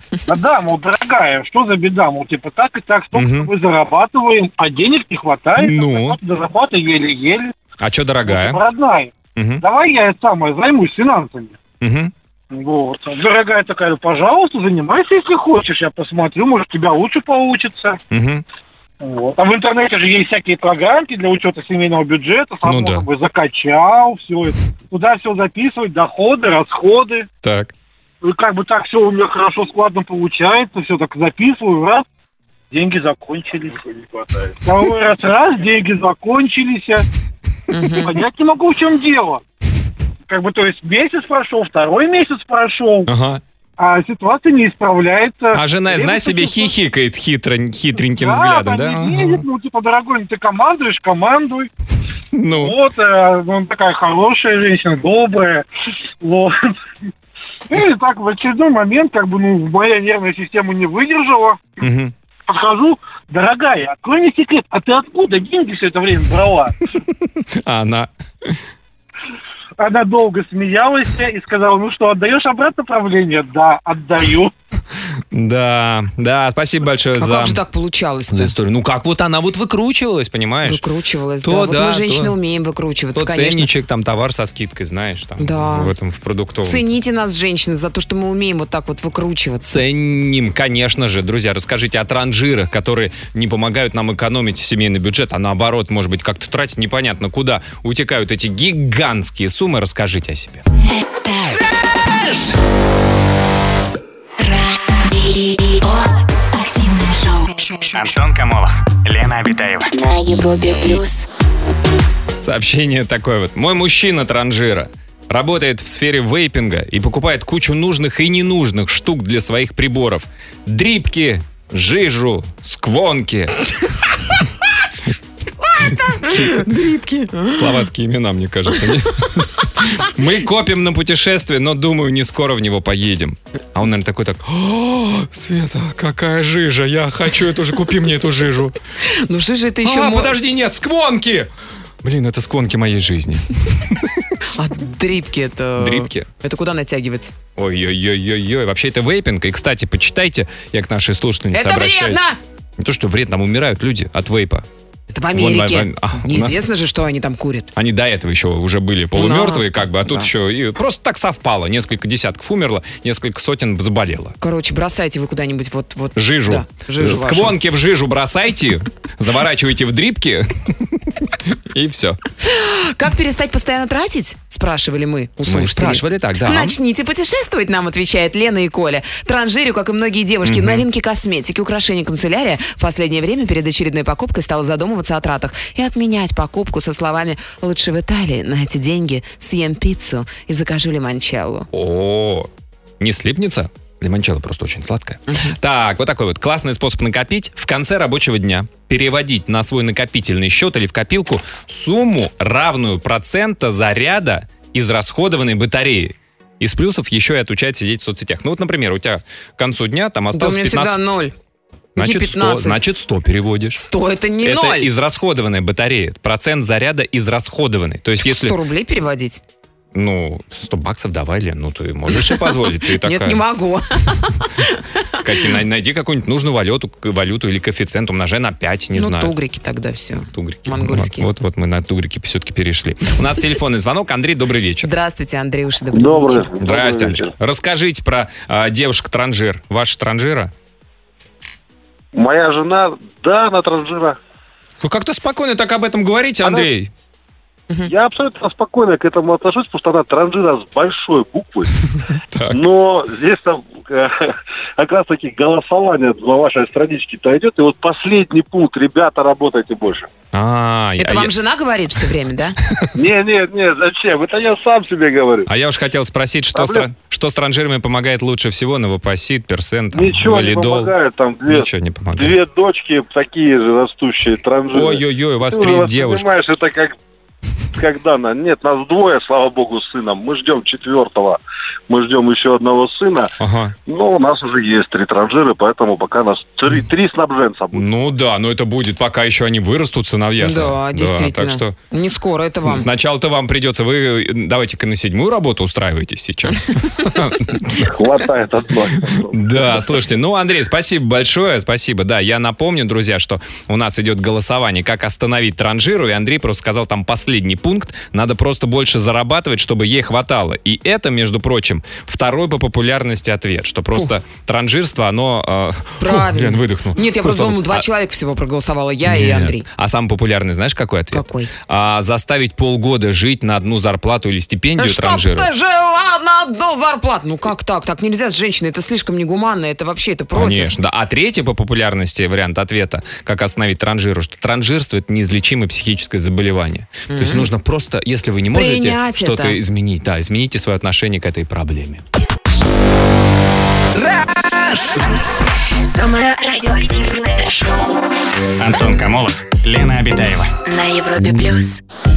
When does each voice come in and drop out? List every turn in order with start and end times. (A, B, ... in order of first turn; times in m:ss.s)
0:00.2-0:07.5 A
0:03.1-0:03.5 B
0:05.6-0:06.2 B
0:07.8-0:08.6 B
0:08.2-0:11.6 A
0:09.4-0:09.6 B
0:11.8-0:12.1 B
0:12.5-0:18.0 A
0:18.1-0:18.4 B
0:19.0-0:27.3 A
0:22.6-0:23.0 B
0:27.4-0:27.7 B
0:28.2-0:32.0 A
0:32.7-0:33.8 A
0:34.6-0:37.0 A
0:37.7-0:38.2 C
0:37.9-0:39.4 A
0:40.2-0:43.1 A
0:43.0-0:43.4 B
0:43.8-0:46.7 A
0:45.5-0:49.4 B
0:48.1-0:51.7 A
0:52.3-0:52.8 B
0:52.5-0:55.6 A
0:56.2-0:56.8 A
0:57.7-1:01.8 A
1:01.8-1:02.1 B
1:02.5-1:06.7 A
1:07.0-1:08.6 B
1:09.8-1:14.5 A
1:15.3-1:17.6 B
1:17.2-1:18.5 C
1:18.3-1:20.8 B
1:20.6-1:23.7 C
1:21.4-1:22.3 B
1:23.1-1:26.9 B
1:25.4-1:25.9 C
1:26.6-1:29.8 C
1:29.6-1:40.6 B
1:41.2-1:41.5 D
1:44.4-1:48.0 D
1:47.8-1:49.9 E
1:49.9-1:51.3 D
1:52.4-2:03.6 B
2:05.7-2:07.6 C
2:05.8-2:06.8 B
2:07.4-2:18.8 B
2:19.1-2:20.4 C
2:19.8-2:21.5 B
2:22.0-2:24.6 B
2:24.5-2:27.3 C
2:25.8-2:26.3 B
2:27.6-2:32.2 B
2:31.5-2:32.4 C
2:32.8-2:34.6 B
2:35.1-2:37.7 C
2:35.3-2:36.6 B
2:37.7-2:44.4 B
2:39.1-2:40.3 C
2:44.4-2:47.6 C
2:46.1-2:52.2 B
2:52.4-3:11.7 C
2:55.4-2:56.8 B
3:00.4-3:00.8 B
3:11.7-3:31.0 B
3:15.3-3:15.5 C
3:30.3-3:31.3 C
3:32.0-3:33.8 B
3:32.0-3:32.8 C
3:33.7-3:34.9 C
3:34.4-3:38.6 B
3:38.2-3:39.4 C
3:39.9-3:43.4 B
3:42.1-3:45.4 C
3:45.2-3:49.4 B
3:48.9-3:51.3 C
3:50.3-3:54.9 B
3:54.8-3:56.5 C
3:55.9-3:57.3 F
3:56.6-4:00.5 B
4:02.1-4:04.2 F
4:04.8-4:06.9 B
4:06.4-4:06.7 F
4:07.8-4:11.7 F
4:12.3-4:12.6 B
4:12.5-4:20.1 F
4:20.3-4:21.3 B
4:21.0-4:22.6 C
4:22.6-4:22.9 B
4:22.9-4:25.5 F
4:25.5-4:30.9 B
4:26.5-4:26.9 F
4:29.9-4:36.9 F
4:31.5-4:32.4 B
4:34.7-4:36.2 B
4:37.7-4:43.3 F
4:43.4-4:43.8 B
4:43.8-4:47.8 F
4:47.7-4:51.8 B
4:50.4-4:52.9 C
4:52.6-4:57.9 B
4:57.7-4:59.9 F
4:59.3-5:17.9 B
5:16.0-5:19.6 C
5:19.0-5:25.5 B
5:21.1-5:21.5 C
5:24.8-5:30.7 C
5:30.3-5:42.0 B
5:37.1-5:37.5 C
5:38.5-5:39.6 C
5:44.6-5:45.1 D
5:45.8-5:48.0 D
5:48.6-5:50.5 E
5:50.6-5:51.8 D